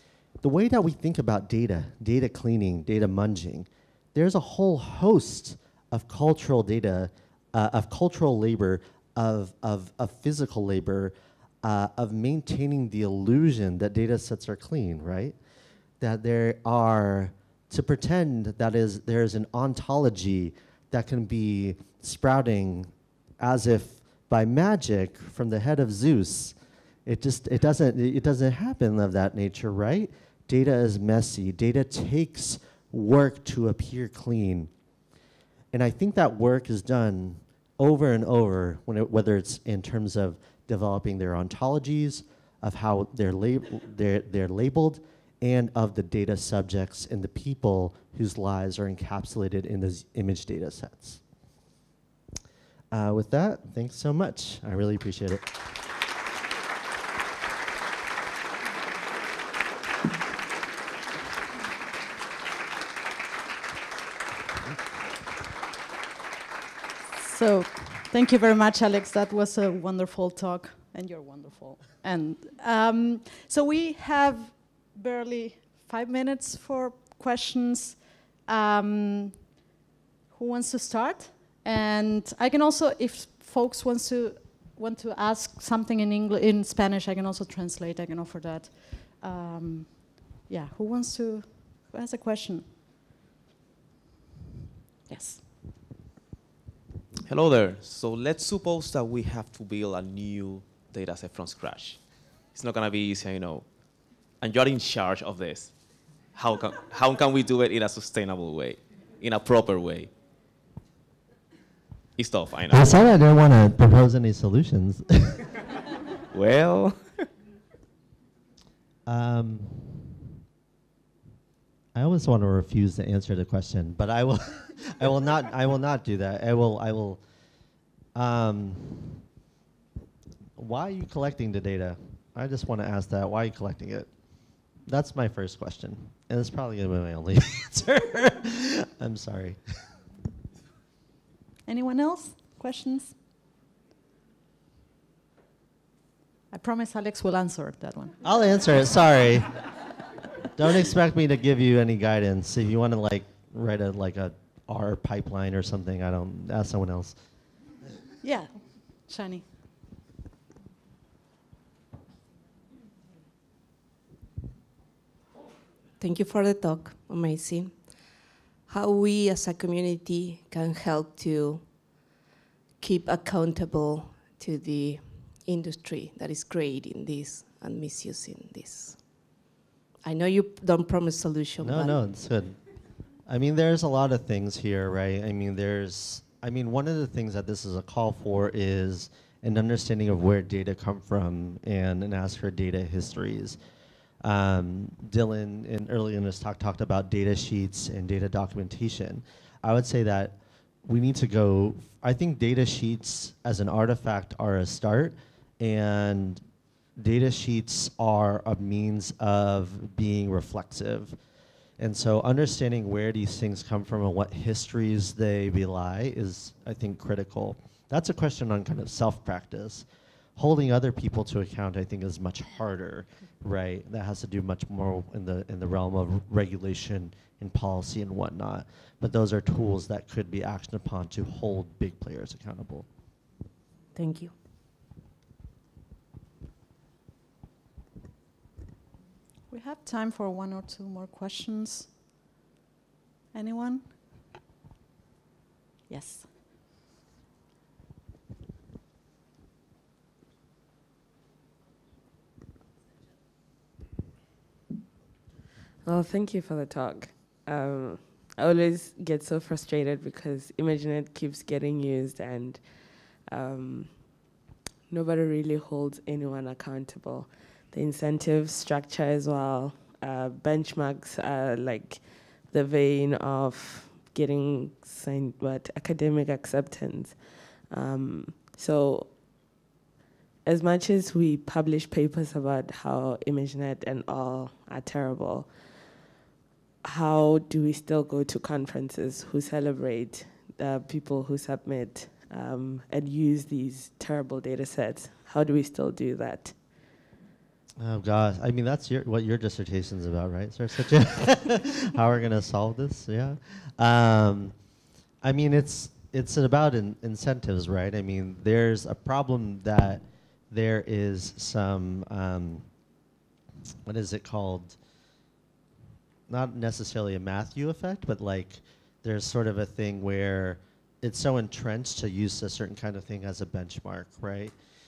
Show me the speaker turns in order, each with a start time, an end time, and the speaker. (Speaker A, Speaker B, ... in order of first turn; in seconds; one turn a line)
Speaker A: 0.4-15.3
Speaker A: 16.0-22.9
Speaker A: 23.4-26.5
Speaker A: 27.1-34.7
Speaker A: 35.7-51.2
Speaker A: 52.9-55.4
Speaker B: 67.1-79.5
Speaker B: 80.3-92.6
Speaker B: 95.1-95.4
Speaker C: 97.2-105.8
Speaker C: 106.3-110.1
Speaker C: 112.2-113.0
Speaker A: 112.7-115.4
Speaker C: 116.3-117.1
Speaker A: 119.1-120.1
Speaker A: 121.9-127.2
Speaker A: 128.2-129.2
Speaker A: 130.6-134.1
Speaker A: 134.9-139.6
Speaker B: 141.7-143.1
Speaker B: 146.5-148.1
Speaker A: 148.2-149.7
Speaker A: 150.5-157.2
Speaker B: 158.2-158.5
Speaker B: 159.1-159.4
Speaker D: 166.0-172.0
Speaker D: 172.8-179.0
Speaker D: 180.0-182.0
Speaker A: 181.6-182.6
Speaker A: 183.3-193.6
Speaker A: 194.2-206.4
Speaker A: 207.0-211.2
Speaker A: 211.8-219.8
Speaker A: 220.4-232.8
Speaker D: 233.9-234.3
Speaker B: 239.5-241.9
Speaker B: 243.3-243.8
Speaker B: 245.9-246.3
Speaker E: 255.8-264.3
Speaker E: 264.9-279.1
Speaker E: 280.4-285.8
Speaker E: 286.8-296.6
Speaker A: 297.8-304.5
Speaker A: 305.2-312.6
Speaker A: 313.9-314.8
Speaker A: 316.3-324.5